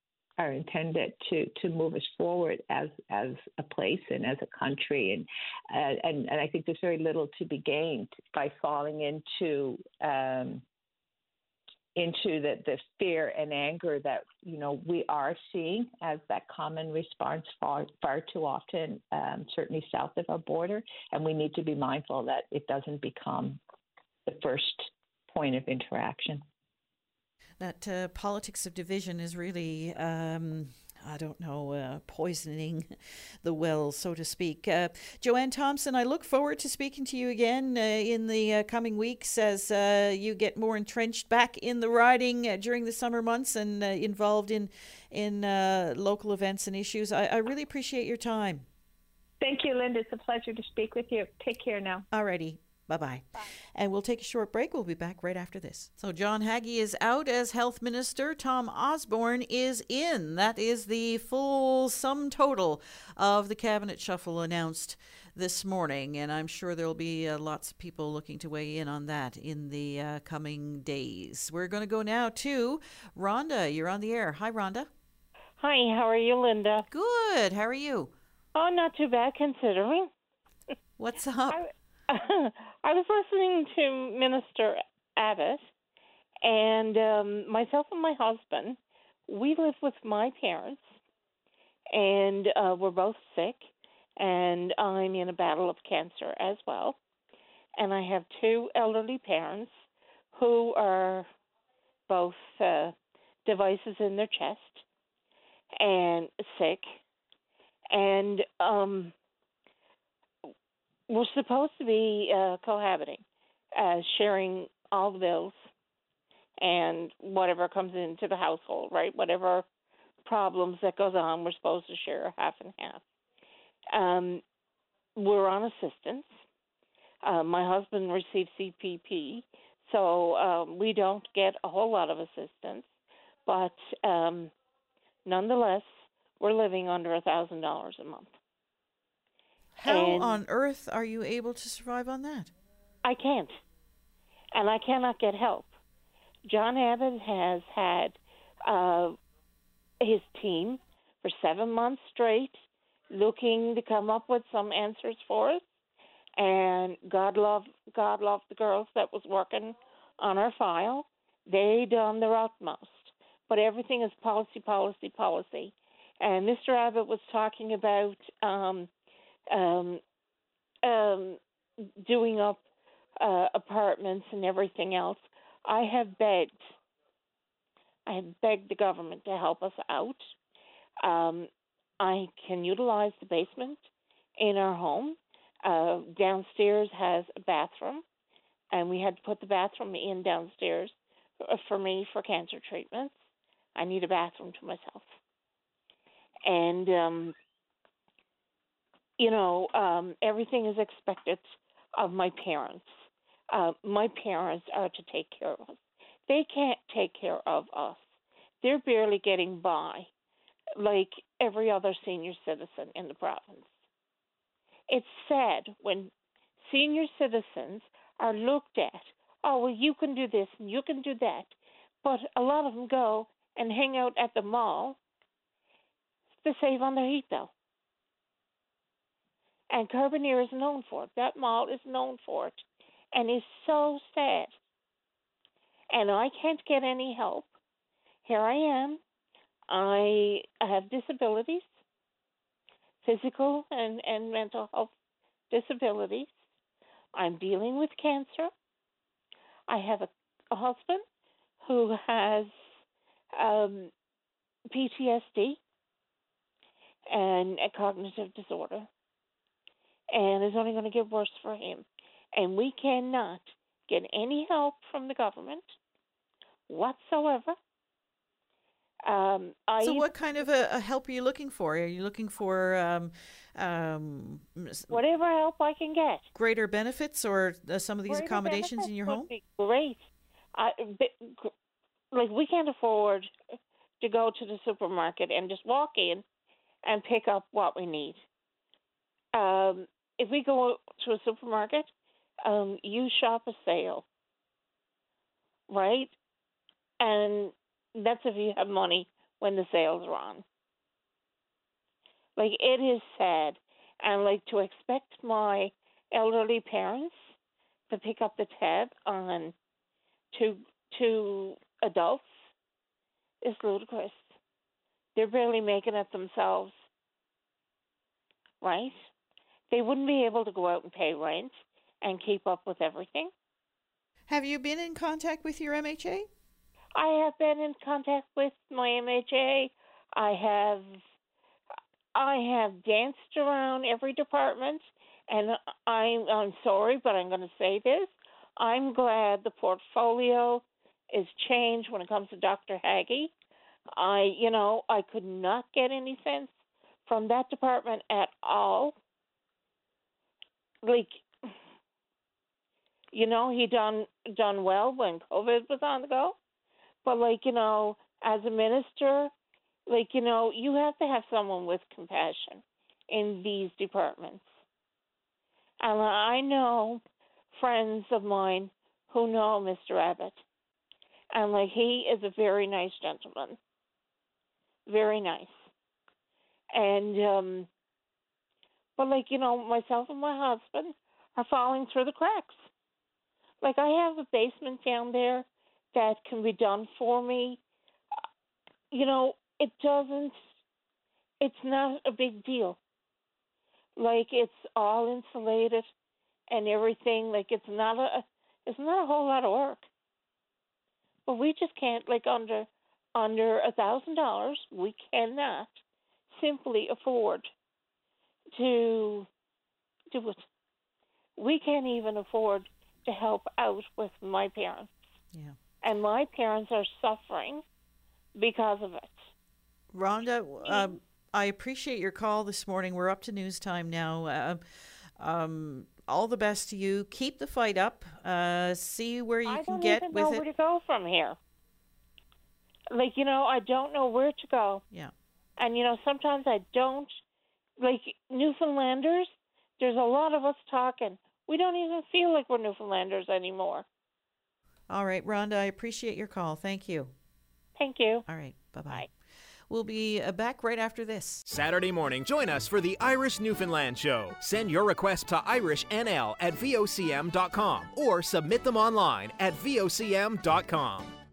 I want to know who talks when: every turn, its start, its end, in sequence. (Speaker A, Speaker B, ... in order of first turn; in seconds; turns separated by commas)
Speaker A: 0.4-10.6, Speaker A: 11.9-23.6, Speaker A: 24.3-26.4, Speaker B: 27.6-48.6, Speaker A: 49.4-52.0, Speaker B: 52.1-74.9, Speaker C: 75.6-76.8, Speaker B: 76.9-78.1, Speaker C: 78.5-80.1, Speaker B: 81.0-81.6, Speaker C: 81.5-85.6, Speaker C: 86.4-90.9, Speaker C: 91.9-97.0, Speaker C: 97.8-101.3, Speaker C: 102.1-102.9, Speaker C: 103.5-104.8, Speaker C: 105.8-106.9, Speaker C: 107.9-109.1, Speaker C: 111.1-113.2, Speaker C: 113.7-115.6, Speaker C: 116.6-119.6, Speaker C: 120.2-123.0, Speaker C: 123.9-124.4, Speaker C: 125.2-126.3, Speaker C: 127.2-132.9, Speaker C: 133.4-134.5, Speaker C: 135.2-138.3, Speaker B: 139.8-142.5, Speaker C: 139.9-140.4, Speaker C: 143.0-143.6, Speaker C: 144.5-145.7, Speaker C: 146.4-149.2, Speaker C: 150.0-155.6, Speaker C: 156.4-168.9, Speaker C: 169.5-170.0, Speaker C: 170.8-171.4, Speaker C: 172.0-172.6, Speaker C: 173.2-176.6, Speaker C: 178.1-180.3, Speaker C: 181.0-181.5, Speaker C: 182.0-183.8, Speaker C: 184.4-188.0, Speaker C: 188.7-193.2, Speaker C: 193.8-195.1, Speaker C: 196.4-197.3, Speaker C: 199.2-210.1, Speaker C: 210.8-213.7, Speaker C: 214.9-221.5, Speaker C: 222.0-225.0, Speaker C: 226.4-227.5, Speaker C: 229.7-234.5, Speaker C: 235.9-237.5, Speaker C: 238.2-239.0, Speaker C: 239.7-241.7, Speaker C: 243.0-244.9, Speaker C: 245.5-246.4, Speaker C: 247.1-248.5, Speaker C: 249.7-251.0, Speaker C: 251.6-252.5, Speaker C: 253.3-253.9, Speaker C: 254.7-255.6, Speaker C: 257.1-258.9, Speaker C: 260.1-265.7, Speaker C: 266.7-267.6, Speaker C: 269.0-270.1, Speaker B: 269.8-275.0, Speaker C: 274.9-276.2, Speaker B: 276.3-279.3, Speaker C: 278.1-281.5, Speaker C: 282.1-283.3, Speaker C: 284.0-286.2, Speaker C: 286.8-288.2, Speaker C: 289.3-291.9, Speaker C: 292.4-294.0, Speaker C: 295.7-296.1, Speaker C: 297.0-300.4, Speaker C: 302.4-307.3, Speaker C: 307.9-309.5, Speaker C: 310.3-312.4, Speaker C: 313.4-314.3, Speaker C: 315.1-316.7, Speaker C: 318.6-319.1, Speaker C: 319.7-323.3, Speaker B: 324.3-326.3, Speaker C: 326.9-331.0, Speaker C: 332.1-343.3, Speaker C: 343.9-348.9, Speaker C: 350.8-351.2, Speaker C: 353.1-356.4, Speaker C: 357.0-359.3, Speaker C: 359.9-364.5, Speaker C: 365.8-367.0, Speaker C: 367.5-370.4, Speaker C: 371.3-373.6, Speaker C: 374.9-375.6, Speaker C: 376.7-377.7, Speaker C: 379.0-382.7, Speaker C: 383.6-387.6, Speaker C: 388.9-390.3, Speaker C: 391.4-392.8, Speaker C: 394.0-395.9, Speaker C: 396.5-399.9, Speaker C: 401.3-405.8, Speaker C: 406.3-407.5, Speaker C: 408.5-409.3, Speaker C: 410.1-410.4, Speaker C: 411.4-414.9, Speaker C: 415.8-417.6, Speaker C: 418.3-419.3, Speaker B: 419.9-424.6, Speaker B: 425.2-430.4, Speaker C: 429.4-431.4, Speaker C: 432.9-434.8, Speaker C: 435.6-437.2, Speaker C: 437.8-443.9, Speaker B: 444.9-447.1, Speaker C: 447.8-448.2, Speaker B: 448.3-449.1, Speaker B: 449.7-451.4, Speaker D: 451.4-461.1